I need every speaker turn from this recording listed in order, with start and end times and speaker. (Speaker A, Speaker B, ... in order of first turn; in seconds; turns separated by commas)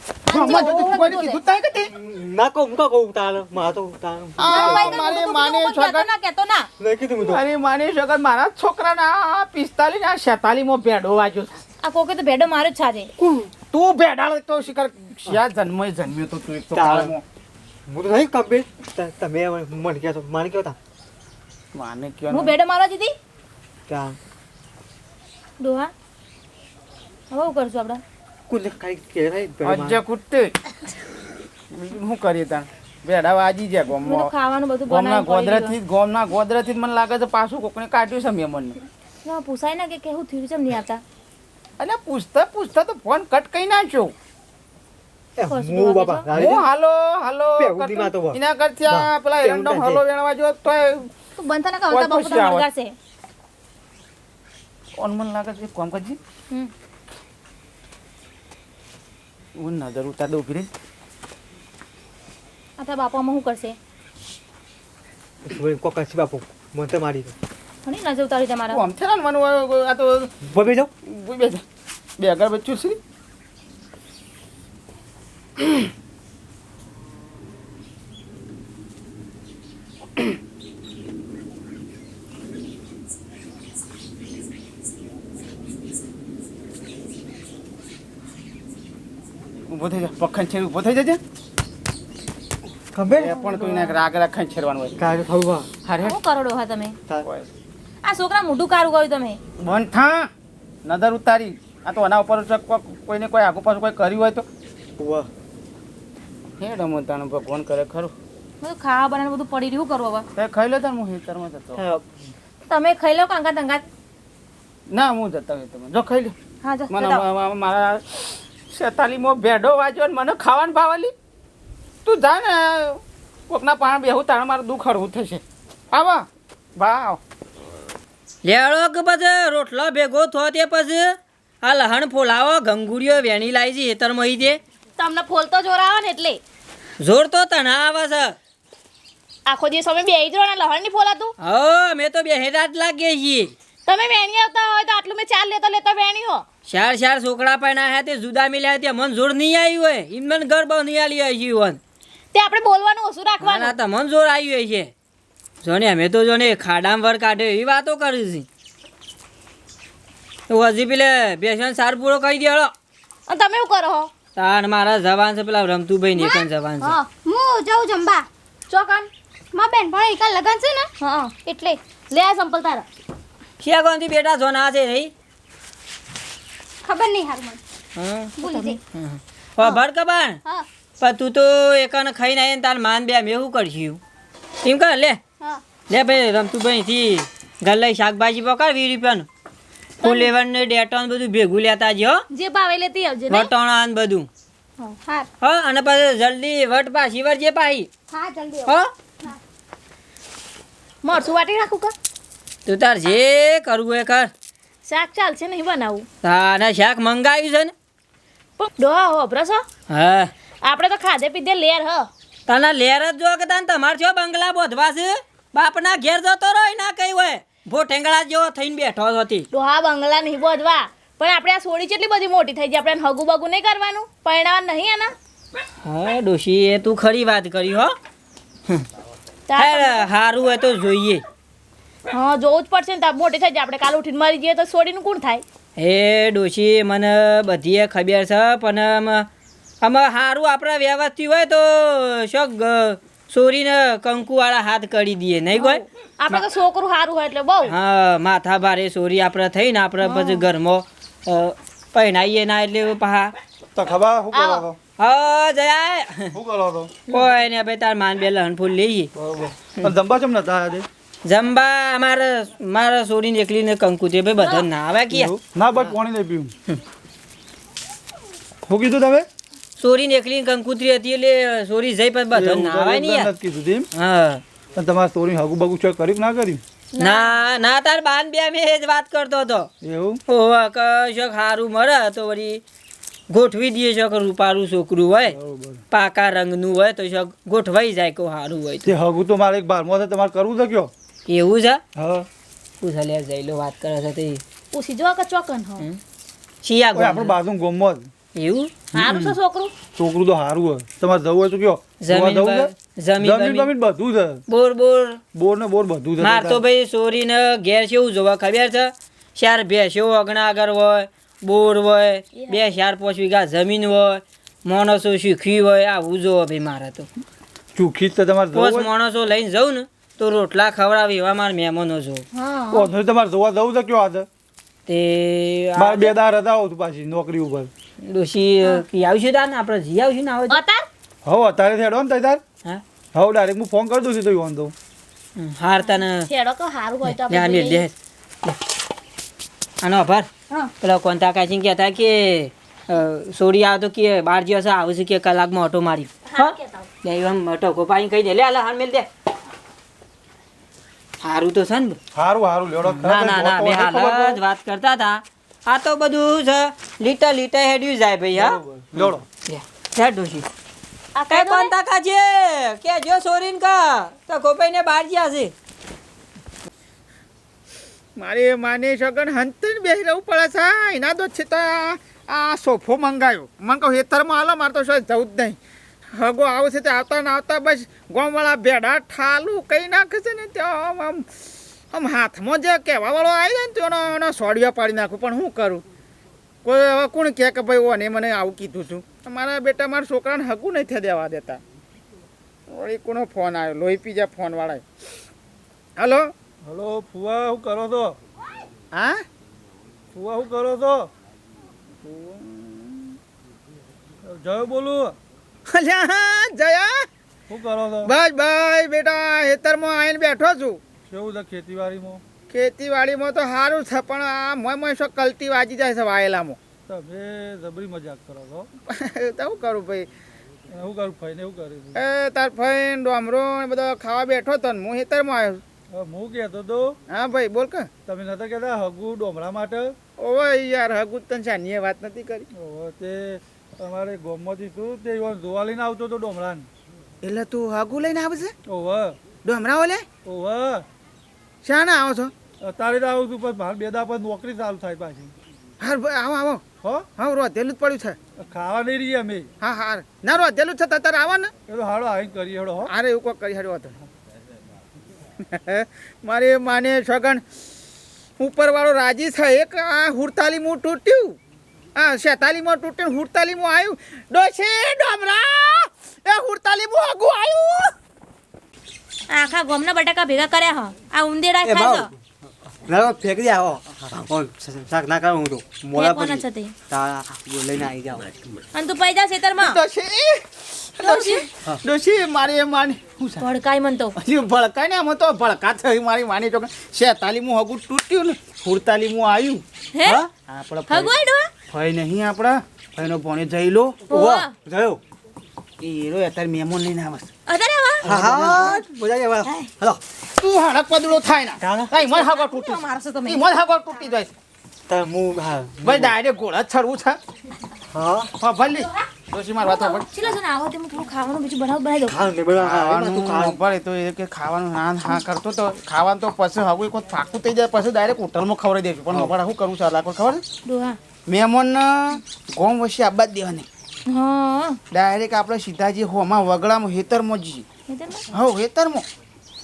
Speaker A: 0.3-1.4, Speaker B: 0.3-1.9, Speaker C: 1.9-5.2, Speaker B: 4.4-6.1, Speaker A: 4.4-6.7, Speaker C: 6.8-7.4, Speaker B: 7.3-11.6, Speaker A: 11.8-13.1, Speaker C: 13.2-13.5, Speaker B: 13.7-17.2, Speaker C: 16.7-17.1, Speaker C: 17.9-20.8, Speaker B: 21.7-22.6, Speaker A: 22.3-23.1, Speaker C: 23.9-24.2, Speaker A: 25.6-25.9, Speaker A: 27.3-28.0, Speaker C: 28.5-30.0, Speaker B: 29.6-30.5, Speaker B: 31.7-34.3, Speaker A: 34.0-35.8, Speaker B: 34.9-38.8, Speaker A: 39.2-41.0, Speaker B: 41.8-44.1, Speaker C: 45.4-46.7, Speaker A: 45.5-46.3, Speaker B: 46.3-51.1, Speaker C: 47.6-50.0, Speaker A: 51.4-53.0, Speaker B: 51.9-52.7, Speaker B: 55.0-56.2, Speaker B: 59.6-60.7, Speaker A: 62.8-63.8, Speaker C: 65.5-67.3, Speaker A: 67.8-68.8, Speaker B: 68.7-70.3, Speaker C: 70.4-70.9, Speaker B: 71.1-71.6, Speaker B: 72.2-73.0, Speaker B: 89.7-91.2, Speaker C: 92.9-93.4, Speaker B: 93.2-95.0, Speaker A: 93.4-94.0, Speaker C: 95.0-95.7, Speaker B: 95.8-96.2, Speaker A: 96.0-97.0, Speaker A: 98.0-99.4, Speaker B: 99.6-100.3, Speaker B: 100.8-104.5, Speaker C: 105.0-105.3, Speaker B: 106.6-108.1, Speaker A: 108.6-110.3, Speaker B: 110.4-111.8, Speaker C: 111.8-112.3, Speaker A: 112.7-113.8, Speaker B: 114.9-116.3, Speaker A: 116.6-117.2, Speaker B: 116.9-121.1, Speaker B: 122.0-127.2, Speaker D: 128.4-134.6, Speaker E: 135.0-136.4, Speaker D: 137.0-138.4, Speaker E: 139.5-141.3, Speaker D: 141.4-143.5, Speaker E: 143.9-146.4, Speaker D: 146.7-151.8, Speaker E: 152.3-153.8, Speaker D: 153.4-154.9, Speaker D: 155.6-158.5, Speaker D: 160.5-162.7, Speaker E: 163.3-164.1, Speaker D: 164.4-167.0, Speaker F: 167.1-168.2, Speaker E: 168.7-169.1, Speaker F: 169.5-170.9, Speaker E: 171.0-172.9, Speaker D: 173.6-175.1, Speaker F: 176.8-177.6, Speaker D: 178.0-180.4, Speaker F: 178.4-178.8, Speaker D: 181.0-184.0, Speaker D: 184.6-185.2, Speaker D: 185.9-189.3, Speaker E: 190.0-190.3, Speaker D: 190.0-192.2, Speaker E: 192.3-193.5, Speaker D: 193.3-194.3, Speaker F: 195.0-195.3, Speaker D: 195.4-197.9, Speaker F: 198.1-199.4, Speaker E: 201.0-201.9, Speaker D: 202.7-204.3, Speaker E: 204.9-206.1, Speaker D: 206.2-207.7, Speaker E: 208.6-209.7, Speaker D: 209.9-210.3, Speaker E: 210.6-212.1, Speaker D: 212.5-219.5, Speaker E: 219.5-225.1, Speaker D: 225.8-227.9, Speaker E: 229.5-230.1, Speaker D: 229.6-231.2, Speaker E: 232.1-235.4, Speaker D: 235.8-239.3, Speaker D: 239.8-246.4, Speaker E: 245.6-247.7, Speaker D: 247.6-253.3, Speaker E: 250.1-250.4, Speaker G: 253.8-254.8, Speaker E: 254.3-254.7, Speaker D: 255.0-256.4, Speaker G: 256.3-256.9, Speaker D: 257.1-259.1, Speaker G: 259.2-260.9, Speaker D: 261.2-265.3, Speaker E: 264.4-264.7, Speaker G: 265.1-266.5, Speaker G: 268.7-269.3, Speaker D: 269.8-273.3, Speaker G: 272.3-273.9, Speaker D: 273.9-274.4, Speaker G: 274.8-276.6, Speaker D: 277.0-279.7, Speaker A: 277.0-277.3, Speaker G: 279.8-280.2, Speaker D: 280.3-282.6, Speaker D: 283.3-285.4, Speaker G: 285.3-285.8, Speaker D: 285.9-288.9, Speaker G: 288.9-290.9, Speaker D: 291.3-291.8, Speaker G: 292.0-292.3, Speaker D: 292.8-294.4, Speaker E: 294.7-295.9, Speaker D: 296.6-297.4, Speaker G: 296.9-298.1, Speaker D: 298.4-298.7, Speaker E: 298.9-299.7, Speaker G: 298.9-299.3, Speaker G: 300.0-304.4, Speaker D: 302.0-303.7, Speaker D: 304.5-305.2, Speaker G: 305.3-306.6, Speaker D: 306.2-317.1, Speaker G: 317.8-318.9, Speaker D: 318.5-322.2, Speaker E: 322.3-322.9, Speaker G: 322.7-324.3, Speaker D: 324.9-326.1, Speaker G: 325.8-327.7, Speaker D: 328.0-330.6, Speaker E: 330.5-330.9, Speaker G: 331.2-332.4, Speaker G: 333.1-334.7, Speaker D: 335.4-336.3, Speaker E: 336.3-337.9, Speaker D: 337.1-337.9, Speaker D: 339.8-349.1, Speaker E: 346.3-346.9, Speaker D: 351.2-352.0, Speaker G: 352.1-354.4, Speaker D: 352.9-360.5, Speaker G: 358.4-359.2, Speaker E: 361.1-361.7, Speaker D: 361.3-365.5, Speaker B: 368.2-375.6, Speaker B: 376.1-381.4, Speaker B: 381.9-385.8, Speaker B: 386.6-391.6, Speaker B: 392.7-394.9, Speaker B: 396.0-396.3, Speaker G: 396.6-398.1, Speaker B: 398.9-399.2, Speaker G: 400.1-401.1, Speaker B: 402.0-403.2, Speaker G: 404.2-405.2, Speaker B: 405.7-407.1, Speaker G: 407.5-408.1, Speaker B: 408.1-410.8, Speaker G: 411.1-412.2, Speaker B: 412.5-416.6, Speaker G: 416.9-418.7, Speaker B: 418.9-420.1, Speaker G: 420.7-422.0, Speaker B: 421.9-425.6, Speaker G: 425.9-426.9, Speaker B: 427.1-427.9, Speaker G: 428.1-429.9, Speaker B: 430.2-432.5, Speaker G: 432.5-436.7, Speaker B: 437.2-438.5, Speaker G: 438.7-439.2, Speaker B: 439.4-440.1, Speaker G: 440.2-440.9, Speaker B: 441.6-442.3, Speaker G: 442.6-445.3, Speaker B: 445.8-446.6, Speaker G: 446.8-447.1, Speaker B: 447.2-448.2, Speaker G: 448.4-449.5, Speaker B: 449.6-451.5, Speaker G: 451.7-452.9, Speaker B: 452.9-454.0, Speaker B: 455.4-457.4, Speaker B: 458.4-461.4, Speaker B: 462.0-467.9, Speaker A: 469.3-472.1, Speaker C: 471.6-478.6, Speaker A: 476.0-476.7, Speaker A: 478.7-479.8, Speaker B: 479.6-483.5, Speaker A: 481.0-481.5, Speaker A: 483.4-484.2, Speaker B: 484.2-489.6, Speaker A: 489.9-490.2, Speaker C: 490.0-490.3, Speaker B: 490.5-491.1, Speaker A: 490.9-491.5, Speaker B: 491.7-494.0, Speaker A: 494.1-494.5, Speaker C: 494.1-495.0, Speaker B: 495.8-497.3, Speaker A: 497.5-498.8, Speaker B: 498.0-498.8, Speaker C: 498.0-500.0, Speaker B: 500.4-504.3, Speaker C: 501.6-502.0, Speaker A: 502.0-503.5, Speaker C: 504.9-506.2, Speaker B: 505.8-507.2, Speaker C: 507.9-508.3, Speaker B: 508.4-510.1, Speaker A: 508.7-509.1, Speaker A: 509.6-512.2, Speaker C: 512.1-513.6, Speaker B: 512.6-520.4, Speaker A: 520.6-521.0, Speaker B: 521.3-523.7, Speaker A: 524.1-524.8, Speaker B: 524.9-527.7, Speaker A: 527.9-528.2, Speaker B: 528.3-529.0